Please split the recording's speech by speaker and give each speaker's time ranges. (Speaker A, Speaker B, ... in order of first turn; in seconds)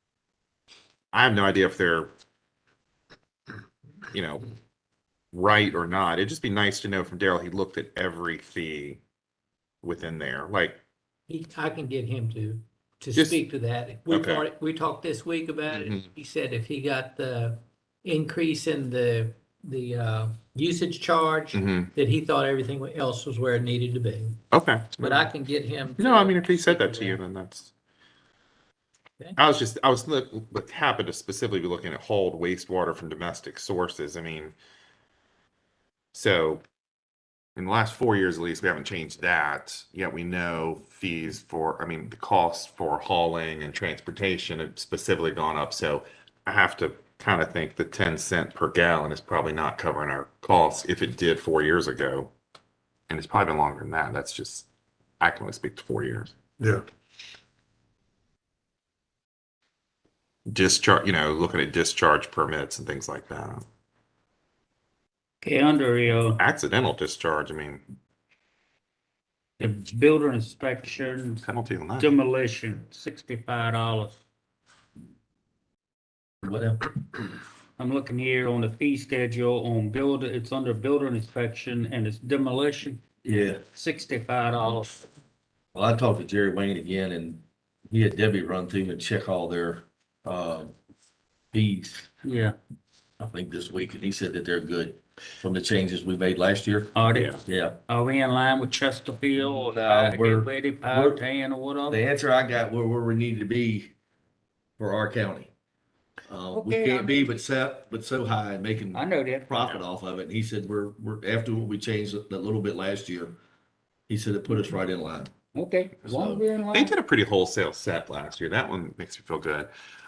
Speaker A: 1.1-2.1, 4.1-4.5, 5.3-9.0, 9.8-10.8, 13.2-13.4, 14.1-14.5, 15.7-16.1, 21.5-21.9, 24.5-25.3, 26.0-27.7, 29.4-34.6, 36.1-36.6, 37.6-52.3, 53.1-54.7, 55.2-56.3, 60.5-63.6, 66.4-67.8, 71.4-72.2, 97.1-97.4, 116.7-119.7
Speaker B: 11.3-24.4, 25.0-27.2
Speaker C: 65.4-66.4, 69.6-74.2, 77.8-85.0, 92.2-92.6, 96.9-102.0, 106.5-107.2, 108.9-109.8, 115.5-117.0
Speaker D: 76.4-77.0, 83.2-83.6, 85.8-90.7, 91.5-92.1, 93.2-96.9, 97.5-97.8, 99.4-101.2, 101.9-103.9, 104.8-105.5, 106.3-113.4, 114.1-115.3, 116.0-116.5